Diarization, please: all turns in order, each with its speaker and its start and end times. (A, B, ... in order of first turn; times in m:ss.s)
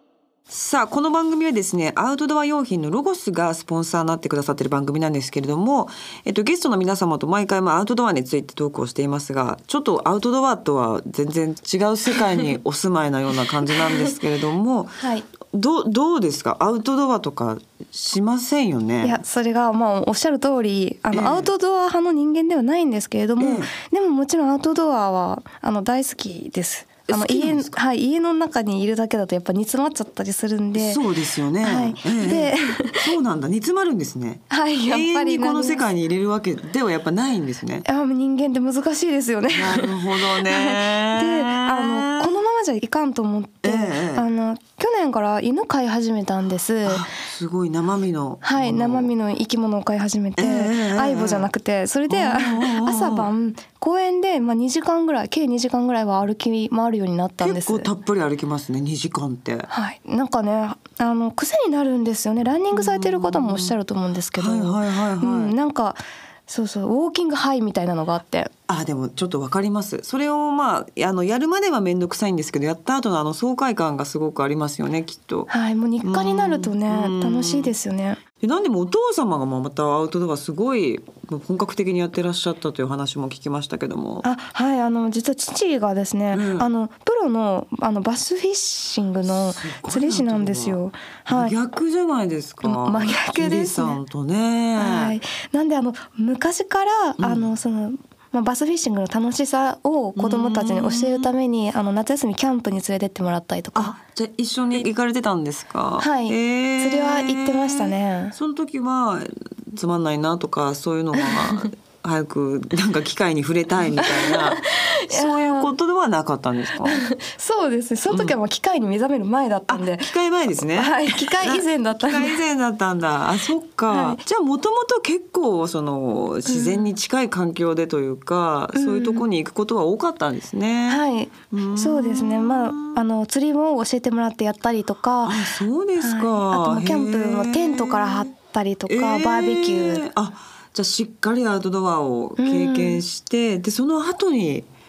0:00.5-0:19.2 A
0:15.0-0:15.2 B
0:19.0-0:31.0 B
0:21.1-0:21.5 A
0:23.4-0:23.7 A
0:27.1-0:27.8 A
0:30.7-0:37.8 A
0:31.6-0:33.0 B
0:34.5-0:35.9 B
0:37.8-0:47.1 B
0:39.5-0:42.3 A
0:43.6-0:44.2 A
0:46.8-0:49.1 A
0:48.4-0:57.9 B
0:50.4-0:51.5 A
0:52.1-0:53.3 A
0:57.4-0:59.7 A
0:59.7-1:08.5 B
1:02.7-1:03.7 A
1:04.4-1:05.5 A
1:08.7-1:15.5 A
1:15.5-1:18.2 B
1:16.0-1:17.7 A
1:18.4-1:24.2 A
1:24.2-1:31.5 B
1:26.3-1:26.7 A
1:29.2-1:35.2 A
1:32.6-1:34.0 B
1:34.8-1:43.9 B
1:37.2-1:37.5 A
1:40.2-1:41.3 A
1:43.7-1:57.1 A
1:46.0-1:48.3 B
1:51.2-1:51.6 B
1:54.0-1:55.7 B
1:56.8-2:02.4 B
1:58.1-1:58.3 A
1:59.7-2:13.0 A
2:03.9-2:04.2 B
2:06.5-2:06.9 B
2:08.7-2:09.3 B
2:10.9-2:20.0 B
2:15.2-2:18.3 A
2:18.9-2:24.7 A
2:22.4-2:23.0 B